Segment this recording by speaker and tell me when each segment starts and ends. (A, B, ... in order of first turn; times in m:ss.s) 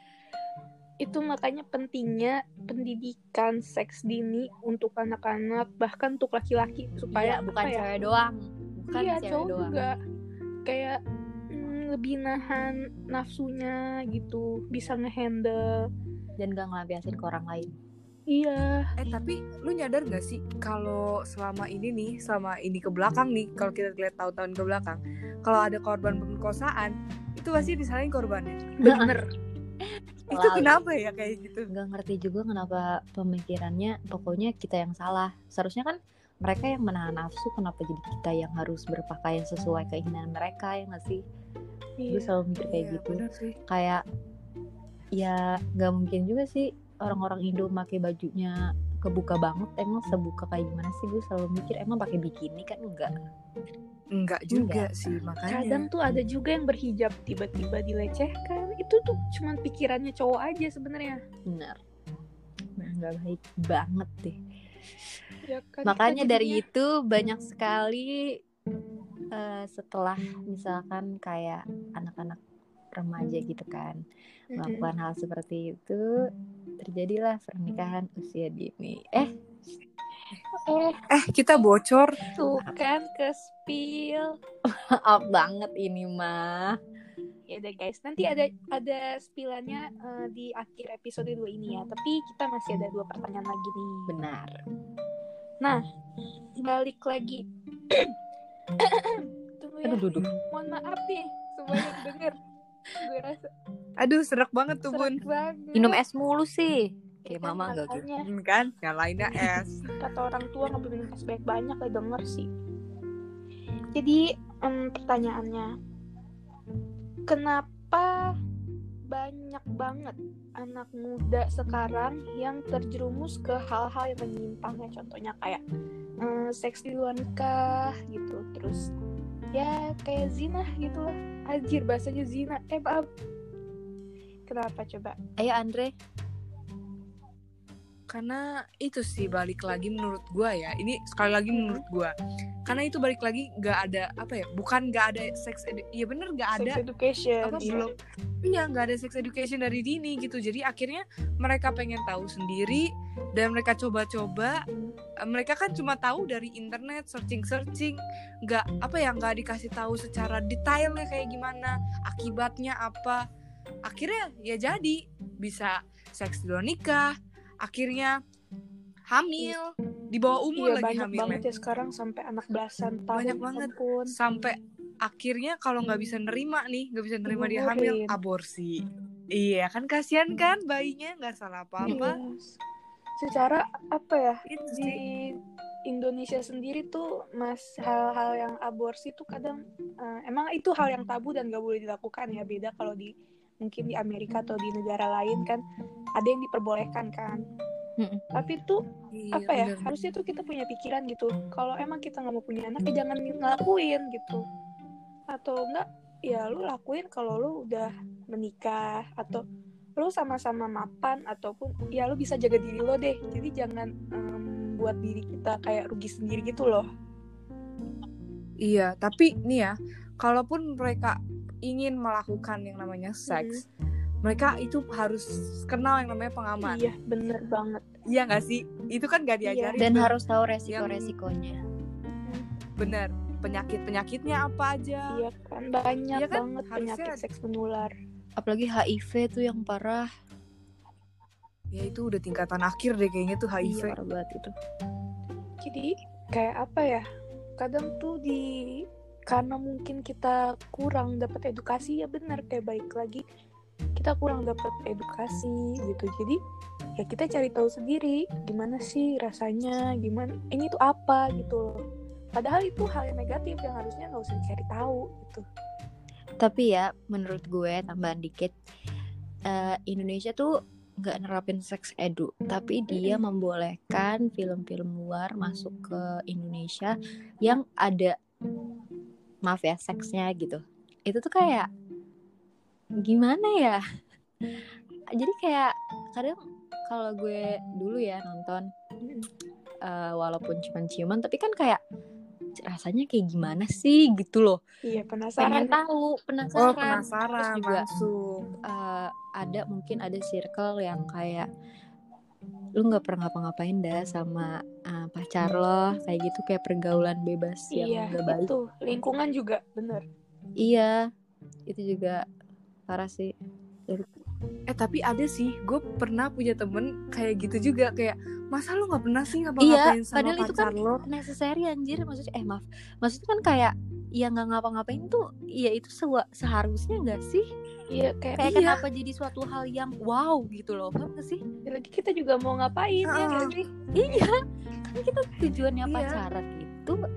0:01.0-0:08.0 A
0:07.1-0:09.8 B
0:08.9-0:09.9 A
0:10.6-0:11.0 A
0:11.5-0:15.8 A
0:16.4-0:17.7 B
0:18.3-0:18.9 A
0:19.0-0:28.7 C
0:28.8-0:29.2 A
0:28.8-0:29.2 B
0:30.3-0:30.8 B
0:30.3-0:31.7 C
0:31.7-0:41.2 B
0:42.0-0:42.3 A
0:42.1-0:44.0 B
0:42.6-0:43.6 C
0:45.1-0:53.1 B
0:54.1-0:55.9 C
0:54.5-0:55.2 B
0:55.5-1:01.2 A
1:01.4-1:01.8 B
1:02.8-1:04.4 B
1:05.5-1:06.6 A
1:05.8-1:08.4 B
1:09.3-1:12.4 B
1:12.9-1:14.0 B
1:14.5-1:14.9 A
1:14.6-1:16.1 B
1:16.8-1:19.3 B
1:20.6-1:21.0 A
1:21.1-1:22.2 C
1:22.3-1:24.3 A
1:24.7-1:26.8 B
1:27.5-1:34.1 A
1:34.1-1:34.6 B
1:36.6-1:38.1 A
1:38.8-1:42.4 A
1:39.8-1:40.3 B
1:43.0-1:43.5 A
1:44.0-1:45.2 C
1:44.9-1:46.0 A
1:45.7-1:48.0 B
1:47.2-1:48.2 A
1:48.2-1:49.8 C
1:50.0-1:52.5 A
1:53.9-1:55.7 A
1:57.3-1:58.3 A
1:59.1-2:05.6 A
2:06.2-2:08.9 A
2:09.5-2:13.1 A
2:14.5-2:15.2 A
2:15.4-2:15.9 B
2:18.1-2:22.1 C
2:21.5-2:21.8 A
2:22.7-2:26.8 C
2:26.5-2:27.9 A
2:27.4-2:27.9 C
2:28.4-2:34.6 C
2:35.2-2:43.2 C
2:43.9-2:47.1 C
2:47.6-2:48.2 C
2:49.1-2:51.4 C
2:50.6-2:54.1 A
2:53.1-2:58.8 C
2:57.3-2:58.1 A
2:59.3-3:02.2 C
3:01.8-3:02.5 A
3:03.2-3:05.3 A
3:04.5-3:05.0 C
3:05.9-3:15.6 A
3:16.2-3:17.4 A
3:18.0-3:18.3 B
3:18.3-3:18.8 A
3:19.1-3:19.9 C
3:19.3-3:24.4 A
3:25.3-3:29.4 A
3:30.0-3:36.8 A
3:38.6-3:43.6 C
3:43.3-3:43.6 A
3:44.2-3:46.8 C
3:46.6-3:47.8 A
3:48.1-3:50.1 C
3:49.4-3:49.8 A
3:49.8-3:51.6 B
3:50.7-3:51.1 C
3:52.8-3:55.1 C
3:55.1-3:57.9 A
3:56.1-3:57.2 C
3:58.4-4:00.1 B
4:01.7-4:03.9 C
4:03.6-4:04.5 B
4:05.6-4:07.0 A
4:07.6-4:13.2 A
4:14.0-4:16.4 A
4:17.0-4:21.8 A
4:22.3-4:25.4 A
4:26.4-4:28.5 B
4:29.5-4:38.1 B
4:32.9-4:33.2 A
4:39.4-4:41.7 B
4:43.0-4:43.8 B
4:45.2-4:46.4 B
4:46.9-4:48.7 B
4:49.8-4:51.8 B
4:52.6-4:54.6 B
4:54.8-4:55.8 A
4:55.4-4:57.8 B
4:56.6-4:58.5 C
4:58.6-5:01.5 B
5:02.8-5:08.5 B
5:07.7-5:10.0 A
5:10.6-5:11.0 B
5:11.7-5:12.2 B
5:12.9-5:13.3 B
5:14.7-5:21.0 C
5:19.6-5:27.4 B
5:27.9-5:28.6 A
5:28.4-5:31.4 B
5:31.6-5:34.2 A
5:33.1-5:33.5 C
5:33.9-5:37.0 B
5:35.8-5:36.2 C